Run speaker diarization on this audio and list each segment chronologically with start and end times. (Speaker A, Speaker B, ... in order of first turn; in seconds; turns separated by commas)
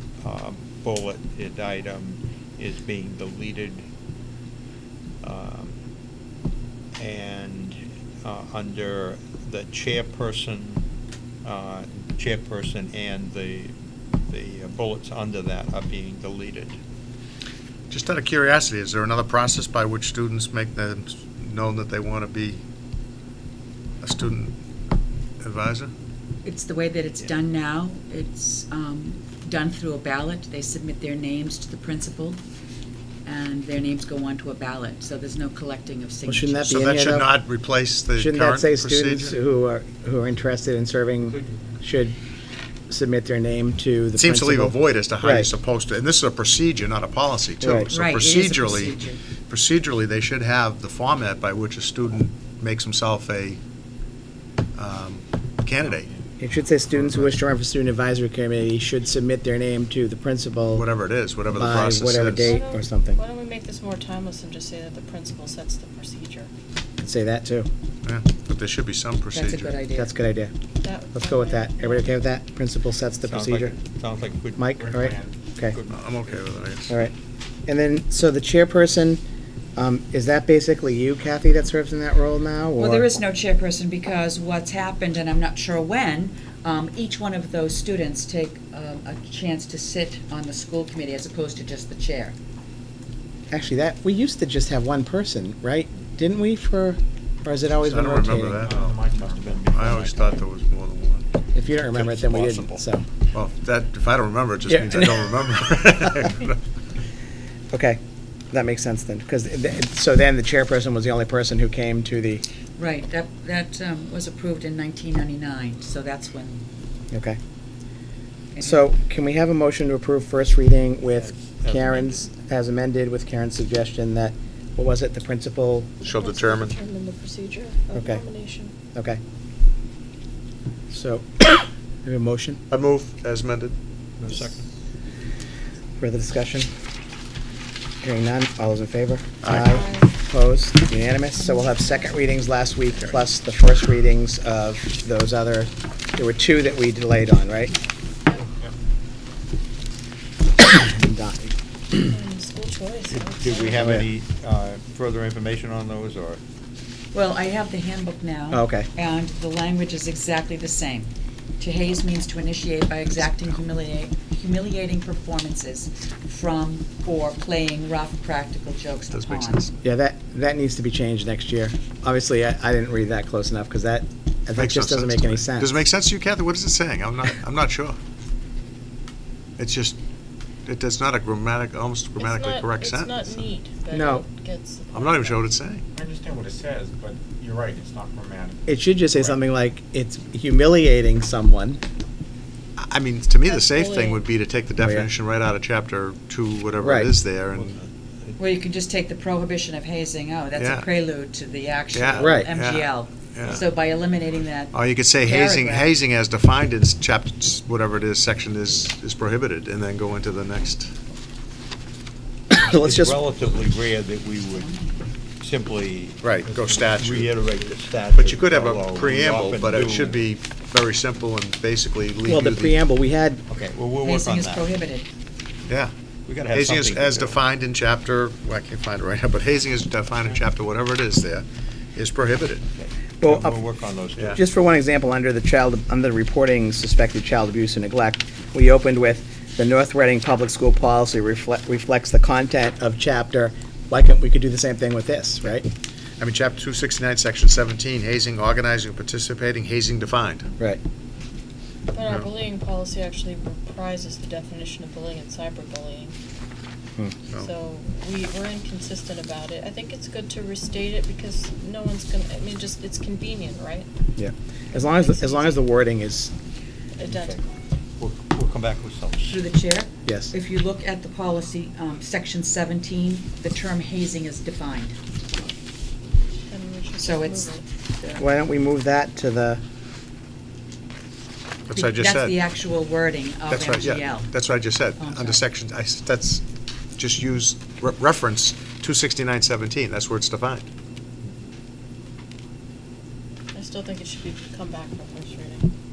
Speaker A: 0.2-3.9, Speaker A: 5.2-5.7, Speaker A: 7.0-10.8, Speaker A: 11.4-13.7, Speaker A: 14.3-16.8, Speaker B: 17.9-22.6, Speaker B: 24.0-24.6, Speaker B: 25.4-25.9, Speaker C: 26.4-32.4, Speaker C: 33.2-36.8, Speaker D: 36.2-37.3, Speaker B: 36.6-39.4, Speaker D: 38.1-42.1, Speaker D: 42.9-45.5, Speaker B: 44.1-53.6, Speaker D: 47.6-47.9, Speaker C: 47.9-49.2, Speaker B: 54.8-56.1, Speaker D: 56.4-60.9, Speaker B: 60.7-62.6, Speaker D: 61.5-63.2, Speaker E: 62.4-66.5, Speaker D: 67.0-67.7, Speaker B: 68.0-69.8, Speaker C: 69.3-70.1, Speaker D: 69.9-70.5, Speaker E: 70.8-72.1, Speaker D: 71.1-73.8, Speaker A: 73.2-74.7, Speaker D: 74.5-75.8, Speaker F: 74.8-75.3, Speaker A: 75.7-76.5, Speaker B: 75.9-77.0, Speaker D: 77.7-79.2, Speaker D: 79.8-83.1, Speaker C: 82.8-92.3, Speaker D: 93.5-98.6, Speaker B: 97.8-99.0, Speaker F: 98.6-99.8, Speaker A: 99.1-100.5, Speaker B: 99.7-101.2, Speaker D: 101.5-103.0, Speaker A: 101.9-102.8, Speaker B: 103.3-106.6, Speaker D: 104.7-105.4, Speaker D: 107.7-108.0, Speaker D: 108.5-112.4, Speaker C: 112.8-116.6, Speaker D: 117.1-117.4, Speaker C: 118.5-118.9, Speaker D: 118.6-126.0, Speaker A: 121.1-122.3, Speaker B: 126.0-126.7, Speaker E: 126.0-128.7, Speaker D: 127.9-128.2, Speaker D: 128.9-129.2, Speaker D: 130.9-132.6, Speaker B: 132.7-133.8, Speaker A: 134.2-134.6, Speaker D: 136.0-136.7, Speaker D: 138.0-147.7, Speaker B: 139.4-139.7, Speaker E: 139.7-140.1, Speaker C: 141.4-141.9, Speaker D: 150.6-152.0, Speaker E: 152.1-153.8, Speaker A: 153.1-156.4, Speaker D: 153.7-154.1, Speaker C: 157.1-169.7, Speaker D: 158.5-158.9, Speaker B: 169.1-169.7, Speaker D: 169.8-175.8, Speaker B: 174.6-178.0, Speaker B: 179.6-180.0, Speaker B: 180.7-183.4, Speaker E: 182.2-185.4, Speaker D: 183.9-184.2, Speaker B: 184.9-185.8, Speaker F: 185.9-189.3, Speaker D: 188.7-191.8, Speaker B: 192.8-197.8, Speaker E: 193.4-194.2, Speaker D: 194.8-195.1, Speaker D: 196.8-197.1, Speaker A: 197.5-198.4, Speaker C: 198.4-205.9, Speaker B: 200.6-200.9, Speaker B: 201.9-203.6, Speaker D: 202.2-202.5, Speaker B: 204.7-210.9, Speaker D: 212.5-213.2, Speaker A: 212.7-214.7, Speaker C: 214.6-215.1, Speaker A: 215.4-220.2, Speaker B: 216.2-217.4, Speaker B: 218.1-222.8, Speaker D: 222.2-223.4, Speaker A: 223.5-224.7, Speaker C: 224.0-225.1, Speaker B: 225.7-225.9, Speaker A: 226.2-227.4, Speaker B: 226.5-232.6, Speaker A: 232.7-234.4, Speaker D: 233.2-233.6, Speaker D: 234.3-245.6, Speaker B: 246.2-250.5, Speaker E: 251.9-256.1, Speaker B: 252.0-252.3, Speaker E: 257.4-263.9, Speaker D: 264.2-266.3, Speaker E: 264.8-265.6, Speaker E: 267.0-267.4, Speaker A: 267.0-267.4, Speaker A: 268.0-269.4, Speaker C: 269.2-274.9, Speaker D: 270.1-270.3, Speaker E: 276.5-277.6, Speaker C: 277.0-278.2, Speaker D: 278.2-279.6, Speaker B: 281.7-282.4, Speaker C: 281.7-284.3, Speaker B: 283.5-286.4, Speaker C: 285.0-285.4, Speaker B: 287.0-290.6, Speaker E: 293.5-295.7